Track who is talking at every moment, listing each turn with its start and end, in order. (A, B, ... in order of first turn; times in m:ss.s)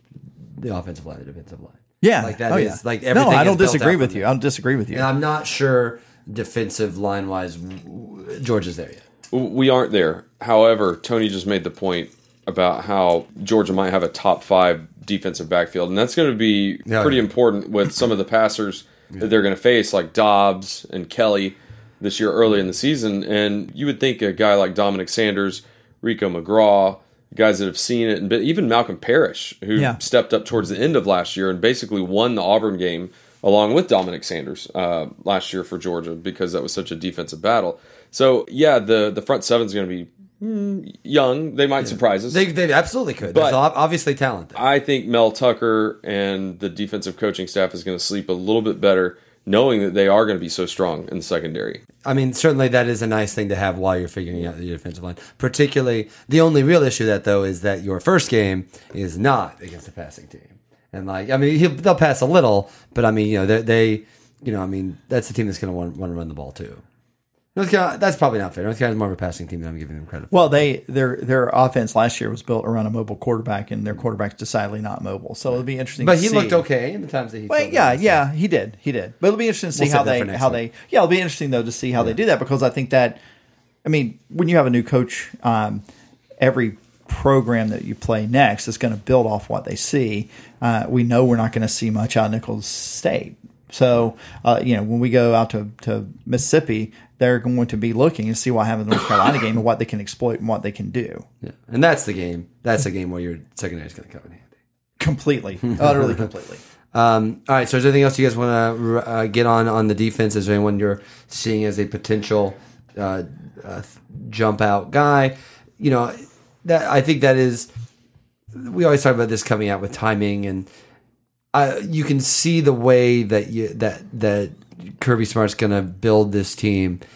0:00.6-0:04.2 A
0:02.0-0:05.0 B
0:04.9-0:09.0 A
0:09.3-0:42.4 C
0:16.9-0:17.2 A
0:41.8-0:44.6 A
0:43.3-0:43.6 C
0:44.6-0:51.8 C
0:52.0-1:06.8 A
1:07.5-1:10.6 A
1:10.3-1:16.6 B
1:16.0-1:18.2 A
1:17.5-1:23.2 B
1:19.8-1:20.6 A
1:23.8-1:25.8 B
1:26.4-1:41.2 B
1:41.4-1:44.5 A
1:45.0-1:46.6 B
1:46.9-1:57.7 A
1:58.5-2:00.7 A
2:01.5-2:07.0 A